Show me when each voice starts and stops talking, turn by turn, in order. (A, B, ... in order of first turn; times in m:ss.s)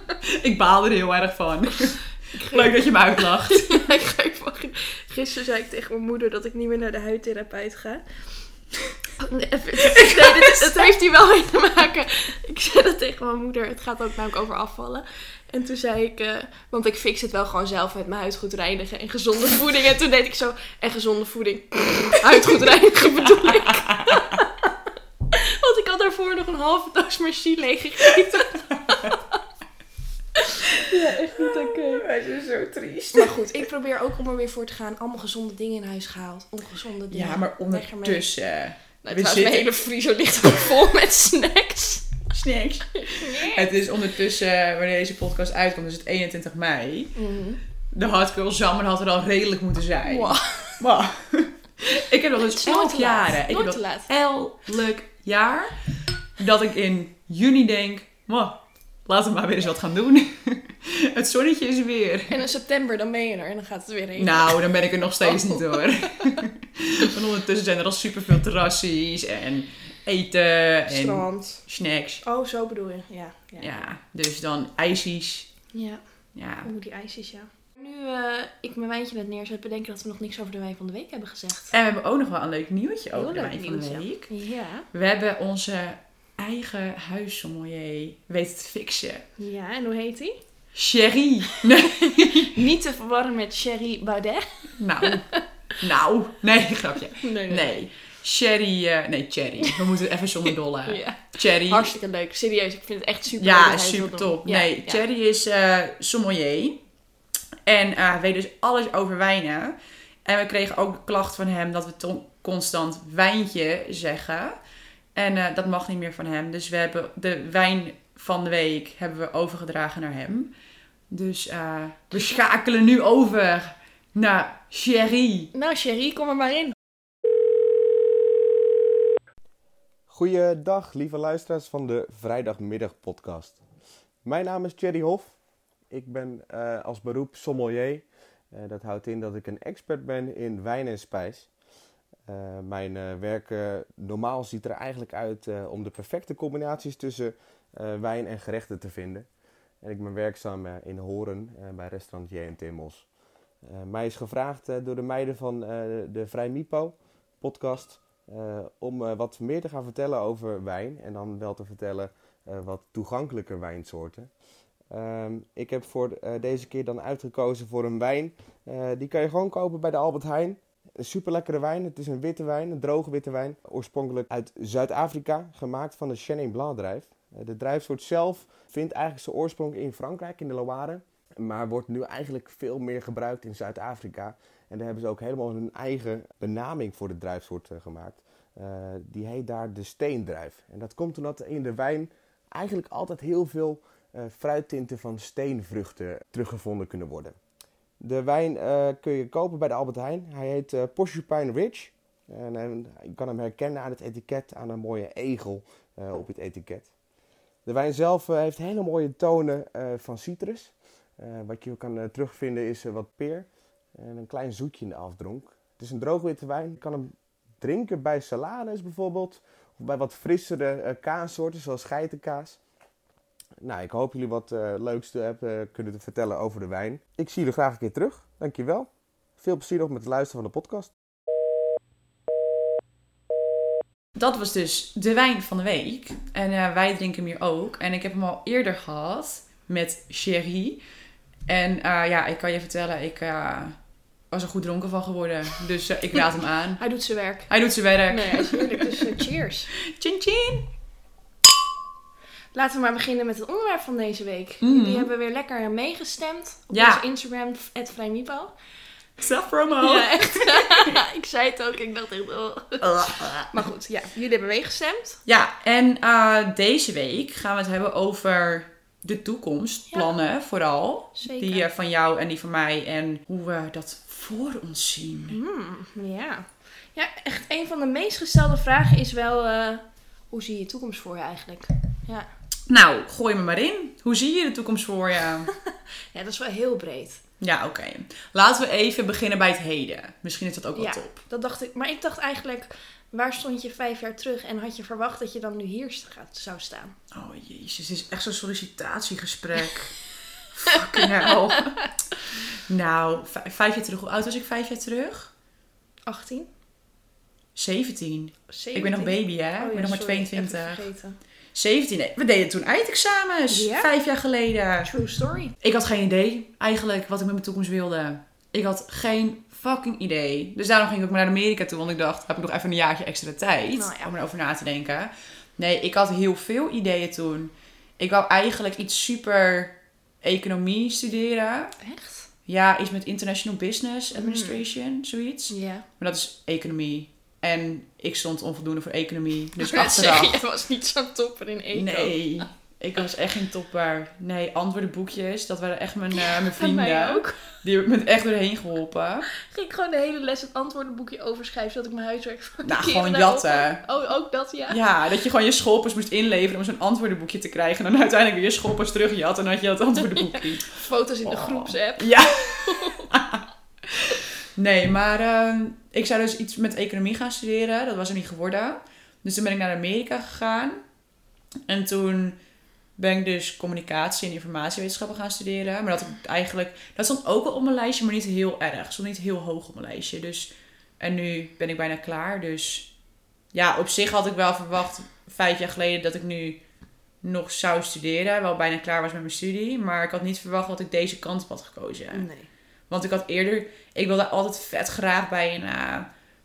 0:00.2-0:03.9 A
0:02.3-0:08.0 B
0:09.2-0:24.7 B
0:09.8-0:10.9 A
0:23.6-0:24.2 A
0:25.3-0:29.3 B
0:30.4-0:32.0 B
0:31.0-0:33.4 A
0:33.1-0:38.3 B
0:37.1-0:39.7 A
0:39.0-0:42.1 B
0:42.3-0:47.2 A
0:43.0-0:43.8 B
0:47.1-0:47.6 B
0:47.9-0:55.8 A
0:50.0-0:50.8 B
0:52.4-0:54.1 B
0:56.4-1:02.3 A
1:02.3-1:04.6 B
1:04.2-1:12.2 A
1:05.2-1:06.4 B
1:10.9-1:11.6 B
1:12.2-1:13.9 B
1:13.6-1:15.5 A
1:15.7-1:16.0 B
1:16.3-1:16.7 A
1:16.6-1:21.7 B
1:21.7-1:24.3 A
1:23.1-1:24.9 B
1:24.9-1:29.2 A
1:29.4-1:30.4 B
1:30.7-1:32.6 A
1:31.6-1:35.4 B
1:34.8-1:41.9 A
1:37.2-1:37.7 B
1:40.8-1:45.0 B
1:43.4-1:46.8 A
1:47.6-1:54.6 A
1:55.1-2:00.5 A
2:01.1-2:05.5 A
2:05.5-2:06.7 B
2:10.1-2:13.6 C
2:14.2-2:15.3 C
2:15.9-2:21.5 C
2:22.3-2:29.3 C
2:29.8-2:33.0 C
2:33.6-2:44.3 C
2:44.9-3:17.3 C
3:18.0-3:26.9 C
3:27.6-3:42.6 C
3:43.6-3:50.9 C
3:54.1-4:00.8 A
4:01.5-4:03.8 A
4:04.3-4:06.8 A
4:06.8-4:07.5 B
4:07.5-4:09.2 A
4:08.1-4:09.7 B
4:09.8-4:10.7 A
4:12.5-4:18.5 B
4:14.6-4:15.1 A
4:16.7-4:17.0 A
4:19.2-4:20.9 A
4:19.8-4:25.2 B
4:22.8-4:23.5 A
4:25.2-4:35.4 A
4:31.2-4:31.7 B
4:35.3-4:42.3 B
4:42.7-4:45.5 A
4:45.6-4:47.2 B
4:47.4-4:51.2 A
4:50.7-4:56.9 B
4:57.1-5:05.3 A
5:06.1-5:06.5 B
5:07.6-5:10.8 A
5:08.5-5:11.2 B
5:11.5-5:14.9 A
5:13.5-5:13.9 B
5:14.8-5:15.5 B
5:15.6-5:31.8 A
5:23.7-5:24.1 B
5:31.8-5:32.3 B
5:32.5-5:40.4 A
5:34.1-5:34.6 B
5:35.5-5:35.8 B
5:39.6-5:42.2 B
5:41.7-5:49.3 A
5:46.2-5:47.5 B
5:49.4-5:54.8 B
5:52.6-5:53.8 A
5:54.7-6:10.8 A
6:00.7-6:03.1 B
6:11.7-6:12.4 A
6:13.0-6:22.9 A
6:23.5-6:26.6 A
6:27.2-6:32.2 A
6:32.1-6:32.5 B
6:32.9-6:36.1 A